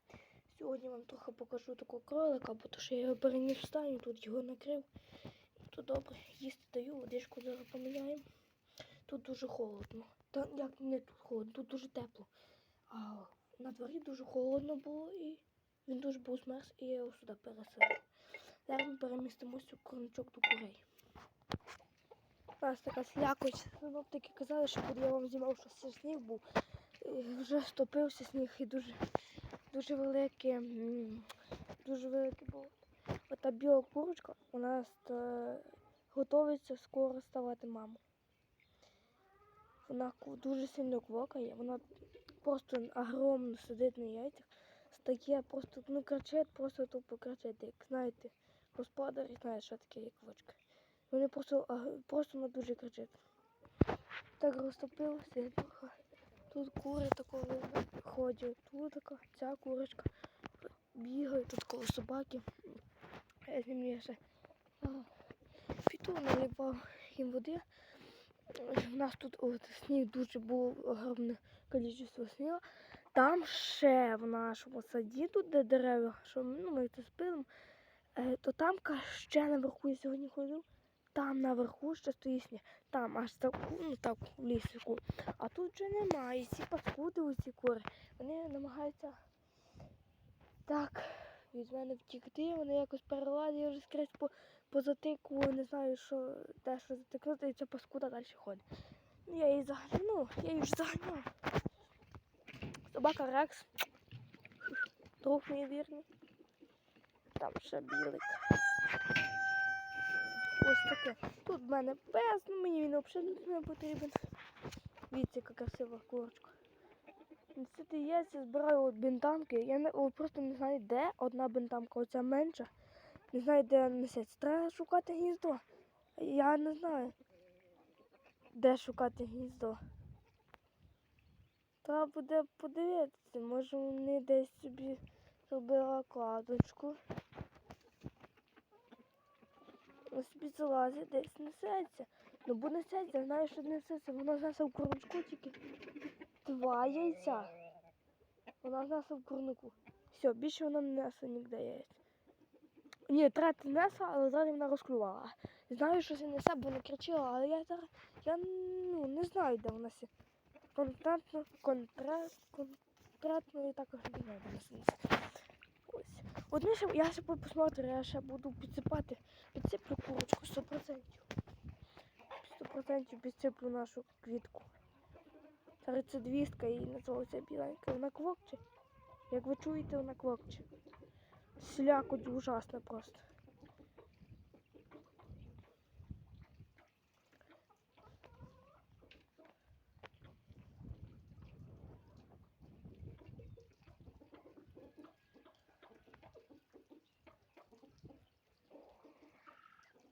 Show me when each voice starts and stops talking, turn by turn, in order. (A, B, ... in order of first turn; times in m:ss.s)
0:00.5-0:04.9 A
0:05.7-0:08.2 A
0:09.1-0:12.3 A
0:12.9-0:18.0 A
0:18.7-0:20.8 A
0:22.6-0:26.4 A
0:27.0-0:29.0 A
0:29.7-0:31.3 A
0:31.8-0:32.8 A
0:33.3-0:38.0 A
0:39.8-0:41.8 A
0:42.4-0:53.1 A
0:54.4-0:55.9 A
0:56.5-1:00.1 A
1:00.6-1:02.5 A
1:03.5-1:04.2 A
1:04.8-1:05.1 A
1:05.8-1:07.6 A
1:08.5-1:12.6 A
1:13.1-1:17.5 A
1:18.2-1:29.2 A
1:30.7-1:38.6 A
1:39.3-1:41.3 A
1:42.9-1:43.7 A
1:45.2-1:46.1 A
1:47.4-1:48.4 A
1:50.6-1:54.2 A
1:55.1-1:56.6 A
1:57.5-2:02.7 A
2:03.3-2:05.6 A
2:06.2-2:07.2 A
2:08.5-2:09.8 A
2:11.8-2:17.0 A
2:20.1-2:25.6 A
2:26.4-2:27.5 A
2:28.6-2:32.0 A
2:33.1-2:40.1 A
2:40.8-2:45.2 A
2:45.9-2:51.3 A
2:52.4-2:54.7 A
2:55.8-2:58.6 A
2:59.3-3:00.7 A
3:01.6-3:03.2 A